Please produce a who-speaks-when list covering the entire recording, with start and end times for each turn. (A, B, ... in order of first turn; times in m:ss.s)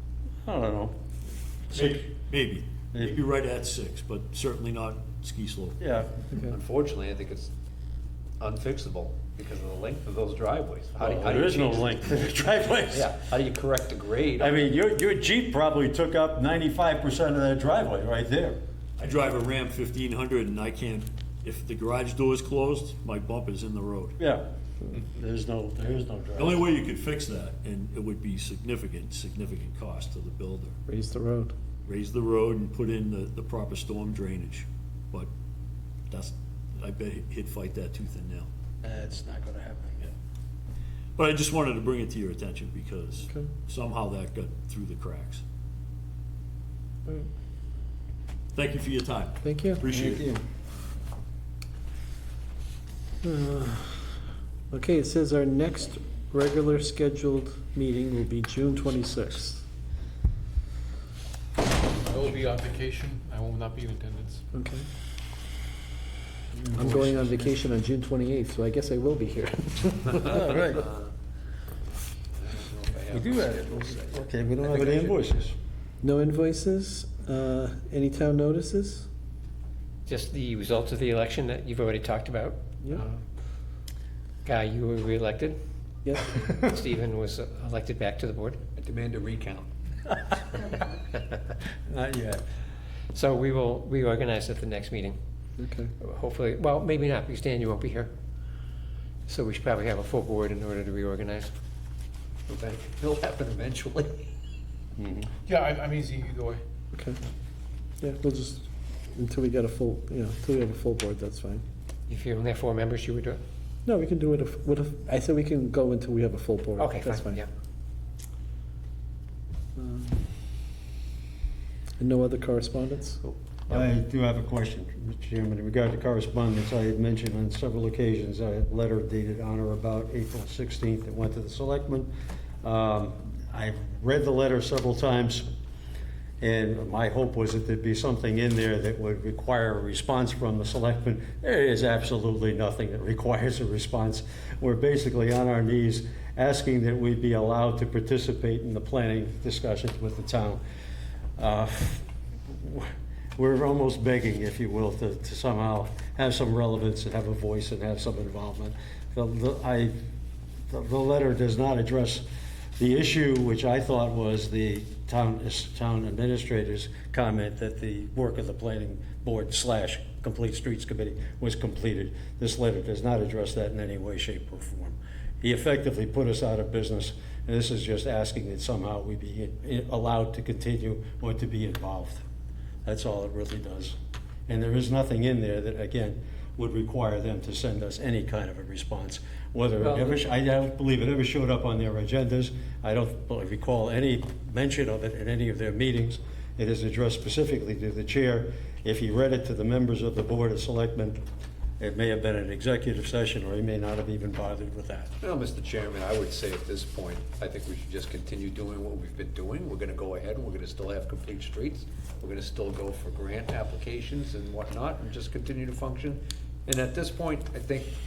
0:00.4-0:00.9 A
0:01.7-0:05.8 B
0:01.7-0:02.0 A
0:02.9-0:03.2 A
0:05.8-0:06.1 A
0:06.4-0:07.5 C
0:08.4-0:12.0 C
0:11.0-0:13.1 A
0:12.8-0:14.7 C
0:14.4-0:18.6 A
0:19.0-0:24.2 B
0:24.2-0:26.6 A
0:26.4-0:30.8 B
0:30.9-0:31.5 D
0:31.8-0:35.3 B
0:36.1-0:38.5 B
0:38.8-0:40.1 A
0:41.2-0:45.4 B
0:43.3-0:43.5 D
0:48.5-0:50.3 B
0:49.4-0:49.8 D
0:49.9-0:50.4 A
0:53.2-0:54.2 D
0:54.7-0:59.6 D
1:02.0-1:04.4 E
1:04.5-1:04.9 D
1:06.6-1:07.5 A
1:06.7-1:10.5 D
1:10.2-1:11.1 C
1:10.2-1:10.8 A
1:12.4-1:15.2 C
1:13.1-1:15.5 A
1:16.0-1:19.1 D
1:20.1-1:22.6 F
1:24.4-1:25.6 F
1:26.0-1:26.4 D
1:26.5-1:28.6 F
1:28.8-1:29.6 C
1:31.9-1:32.4 A
1:33.1-1:35.2 F
1:35.6-1:35.9 D
1:36.0-1:38.1 F
1:39.3-1:41.5 F
1:42.5-1:44.2 C
1:45.0-1:45.3 A
1:45.4-1:46.6 E
1:46.9-1:47.2 D
1:48.0-1:51.6 D
1:52.1-1:53.4 F
1:53.8-1:57.4 D
1:56.8-1:57.5 F
1:59.8-2:00.2 D
2:02.0-2:03.2 D
2:03.7-2:12.1 A
2:12.6-2:15.4 A
2:16.4-2:30.6 A
2:31.4-2:40.0 A
2:40.7-2:42.2 A
2:42.8-3:02.2 A
3:02.8-3:03.9 A
3:04.5-3:21.2 A
3:09.8-3:10.2 F
3:21.8-3:25.1 A
3:25.2-3:37.9 C